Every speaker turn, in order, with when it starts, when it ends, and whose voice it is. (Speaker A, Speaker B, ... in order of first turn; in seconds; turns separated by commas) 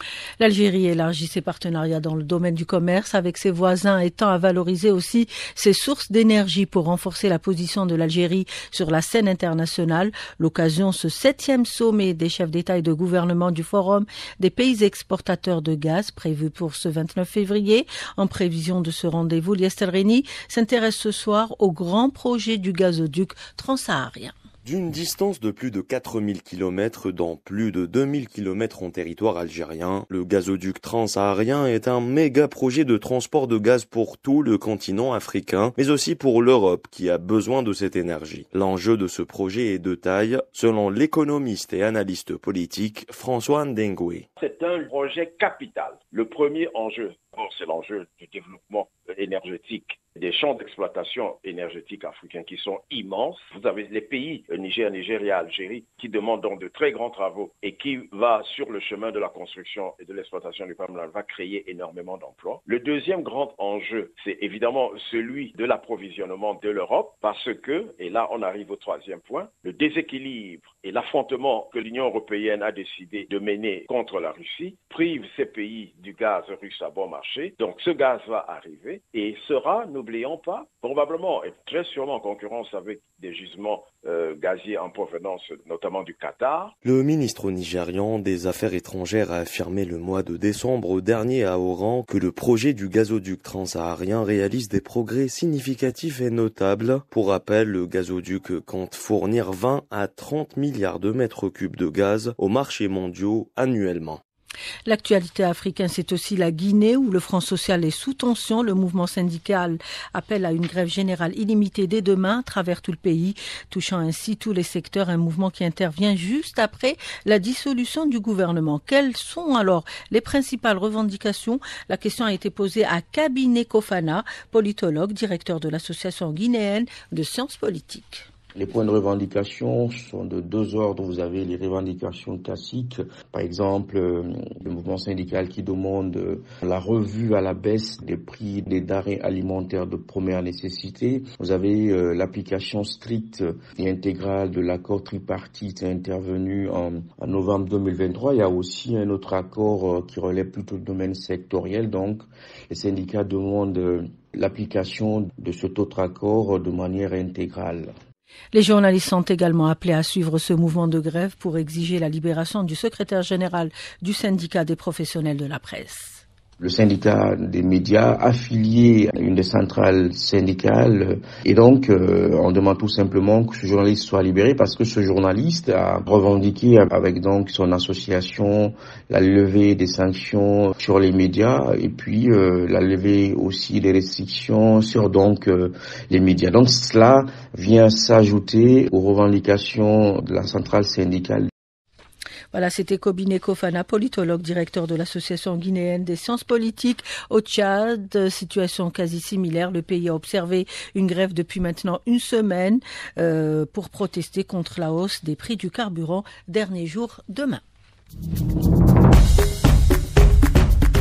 Speaker A: 0.4-24.3, Speaker B: 24.6-44.2, Speaker C: 44.4-86.7, Speaker B: 86.8-104.2, Speaker A: 104.9-128.2, Speaker D: 128.6-157.9, Speaker A: 158.5-166.2, Speaker D: 166.6-191.5, Speaker A: 192.5-207.6